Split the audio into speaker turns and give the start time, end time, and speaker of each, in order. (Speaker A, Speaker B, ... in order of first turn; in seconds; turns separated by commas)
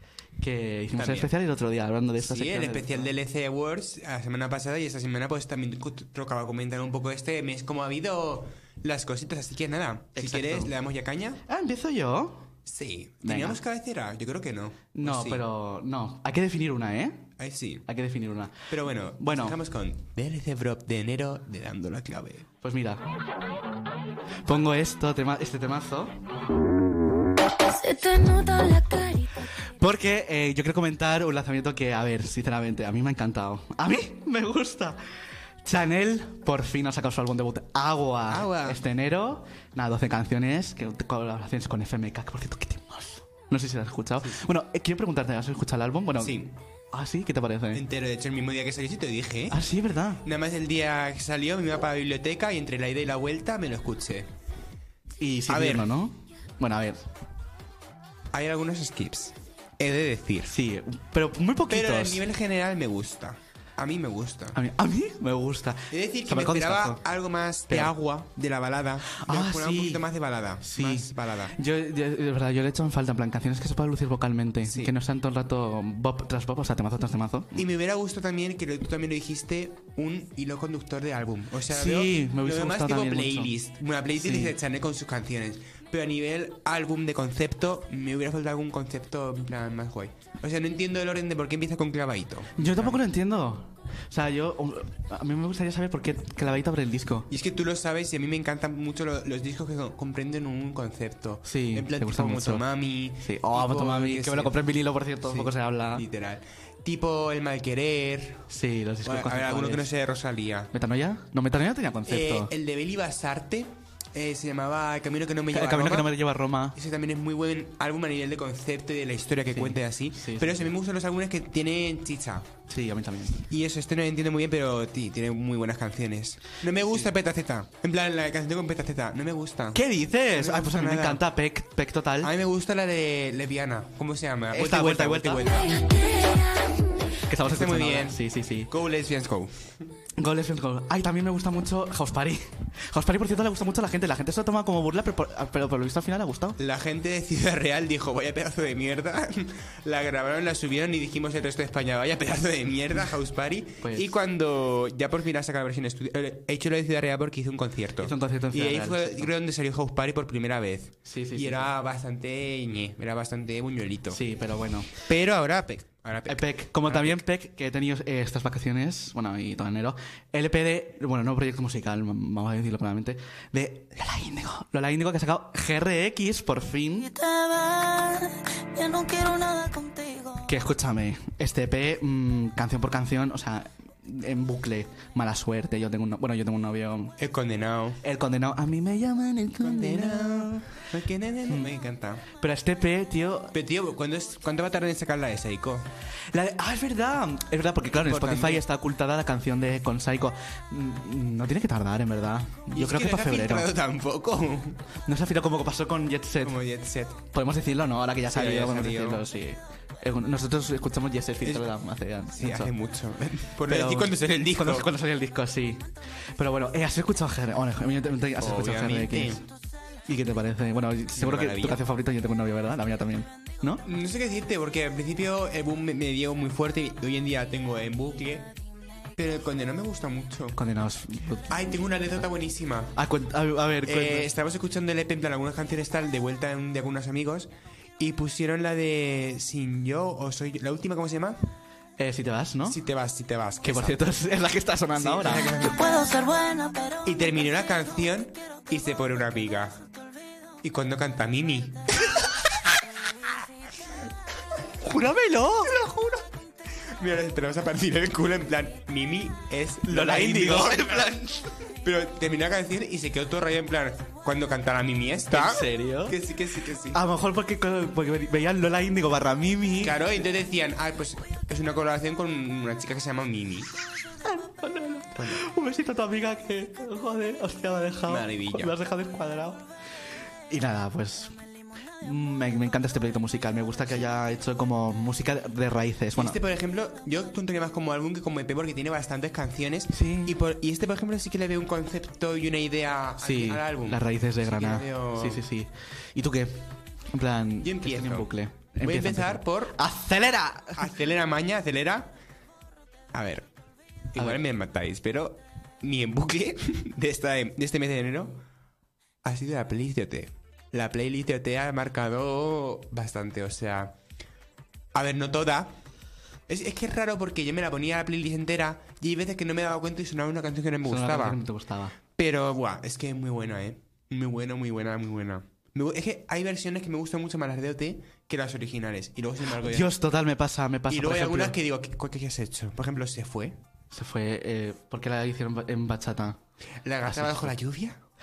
Speaker A: 0.4-3.1, Speaker B: 1.0-1.3, Speaker B: 2.2-11.4, Speaker A: 10.2-10.7, Speaker A: 11.5-12.5, Speaker B: 12.7-15.4, Speaker A: 13.2-13.6, Speaker A: 14.9-17.3, Speaker B: 17.4-17.9, Speaker A: 17.9-18.6, Speaker B: 18.7-22.5, Speaker A: 19.2-19.6, Speaker A: 22.6-23.0, Speaker A: 24.4-26.2, Speaker C: 27.6-29.5, Speaker A: 29.8-35.0, Speaker A: 35.6-46.4, Speaker B: 38.3-38.8, Speaker B: 46.2-46.5, Speaker A: 46.9-47.9, Speaker B: 47.7-49.6, Speaker A: 49.5-50.2, Speaker B: 50.2-54.3, Speaker A: 55.2-57.1, Speaker B: 55.5-55.9, Speaker B: 58.3-60.5, Speaker A: 60.5-62.2, Speaker B: 61.7-64.6, Speaker A: 64.5-67.0, Speaker B: 65.9-71.6, Speaker A: 69.1-70.1, Speaker A: 70.6-77.6, Speaker B: 74.7-74.9, Speaker B: 77.5-93.0, Speaker A: 81.7-83.5, Speaker A: 84.2-84.5, Speaker A: 92.6-97.3, Speaker B: 97.3-104.7, Speaker A: 101.5-102.6, Speaker A: 103.2-106.0, Speaker B: 105.2-108.4, Speaker A: 108.5-109.9, Speaker B: 109.0-110.7, Speaker A: 110.7-112.5, Speaker B: 112.1-116.2, Speaker A: 115.5-116.8, Speaker B: 116.7-122.5, Speaker A: 119.5-120.7, Speaker A: 122.7-123.4, Speaker B: 123.4-131.3, Speaker A: 129.7-132.3, Speaker B: 132.2-135.8, Speaker A: 134.5-135.4, Speaker C: 135.6-136.8, Speaker A: 137.3-138.7, Speaker B: 137.4-139.7, Speaker A: 140.2-146.6, Speaker B: 146.6-164.2, Speaker A: 153.8-154.1, Speaker A: 158.0-159.3, Speaker A: 161.1-161.7, Speaker A: 164.1-164.9, Speaker B: 165.0-167.2, Speaker A: 166.3-177.1, Speaker C: 177.0-180.5, Speaker A: 180.4-187.2, Speaker B: 187.2-188.0, Speaker A: 188.0-190.7, Speaker B: 189.6-192.2, Speaker A: 192.3-193.5, Speaker B: 193.5-195.9, Speaker A: 196.3-203.7, Speaker B: 197.9-198.7, Speaker B: 202.7-204.8, Speaker A: 205.1-206.6, Speaker B: 206.4-207.2, Speaker A: 207.3-212.7, Speaker B: 208.3-209.2, Speaker B: 211.4-211.7, Speaker B: 212.3-214.9, Speaker A: 213.6-219.4, Speaker B: 218.4-219.4, Speaker A: 220.1-223.8, Speaker B: 221.1-221.8, Speaker B: 223.8-228.5, Speaker B: 229.2-230.6, Speaker A: 230.6-231.7, Speaker B: 231.5-233.0, Speaker A: 232.9-234.3, Speaker B: 233.8-241.4, Speaker A: 242.0-242.8, Speaker B: 242.7-244.0, Speaker A: 243.6-245.7, Speaker B: 244.9-246.0, Speaker C: 245.5-247.3, Speaker B: 247.0-249.8, Speaker B: 250.6-251.9, Speaker A: 254.8-255.9, Speaker B: 255.8-256.2, Speaker B: 256.8-261.2, Speaker A: 259.9-261.6, Speaker B: 261.7-267.0, Speaker A: 265.3-266.2, Speaker A: 266.9-270.0, Speaker B: 269.8-273.7, Speaker A: 274.2-279.6, Speaker B: 275.1-275.4, Speaker B: 278.1-278.7, Speaker A: 280.5-281.4, Speaker A: 282.0-286.4, Speaker B: 286.2-295.4, Speaker A: 289.9-290.4, Speaker A: 293.2-300.9, Speaker B: 297.6-298.3, Speaker B: 298.8-299.8, Speaker B: 300.8-302.1, Speaker B: 303.1-303.5, Speaker B: 304.1-308.4, Speaker B: 309.2-314.0, Speaker B: 314.9-315.7, Speaker B: 316.5-321.4, Speaker A: 320.9-322.0, Speaker B: 322.2-329.9, Speaker A: 329.6-331.6, Speaker B: 330.9-333.6, Speaker A: 333.9-336.4, Speaker B: 336.8-338.0, Speaker A: 337.1-337.5